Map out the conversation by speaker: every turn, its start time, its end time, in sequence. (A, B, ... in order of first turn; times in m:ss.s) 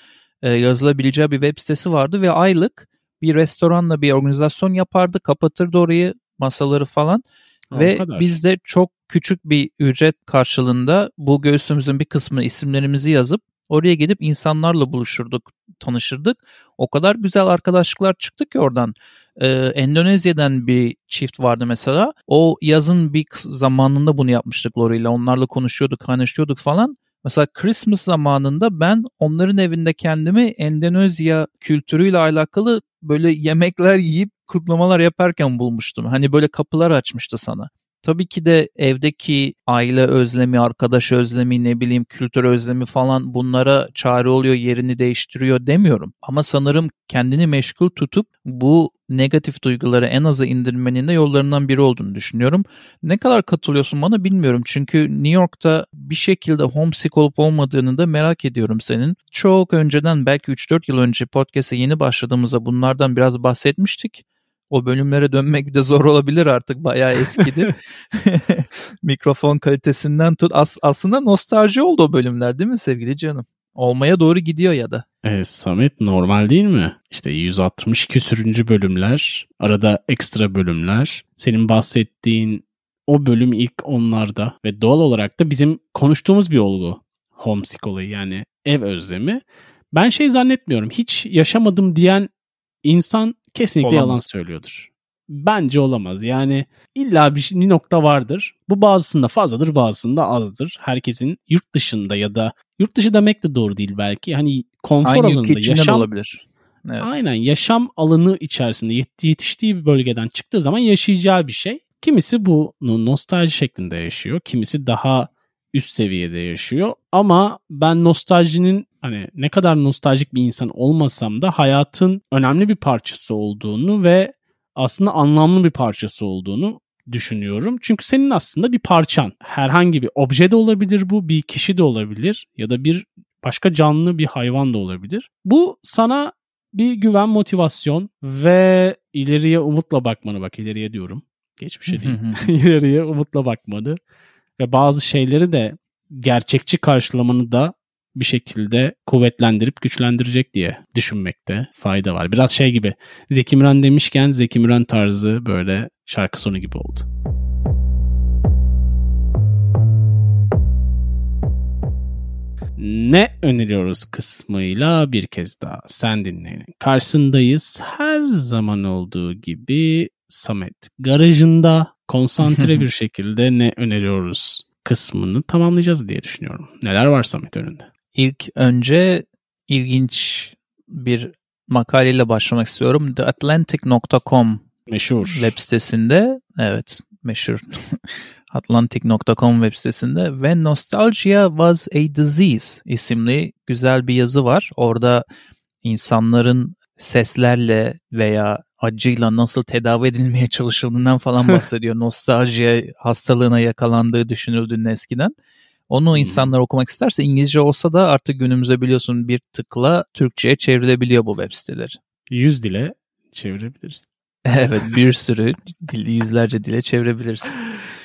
0:00.4-1:15.0 A
0:07.7-0:08.4 B
1:15.2-1:32.3 B
1:32.8-1:46.1 B
1:33.8-1:34.2 A
1:45.0-1:47.1 A
1:47.0-2:24.0 B
2:21.9-2:22.5 A
2:24.6-2:37.1 B
2:42.8-2:57.9 B
2:52.4-2:52.8 A
2:58.1-3:04.6 A
3:04.9-3:05.5 B
3:05.2-3:08.0 A
3:08.5-3:15.2 A
3:15.8-3:25.3 A
3:25.9-3:32.0 A
3:26.2-3:26.6 B
3:32.3-3:34.1 B
3:34.5-3:37.6 A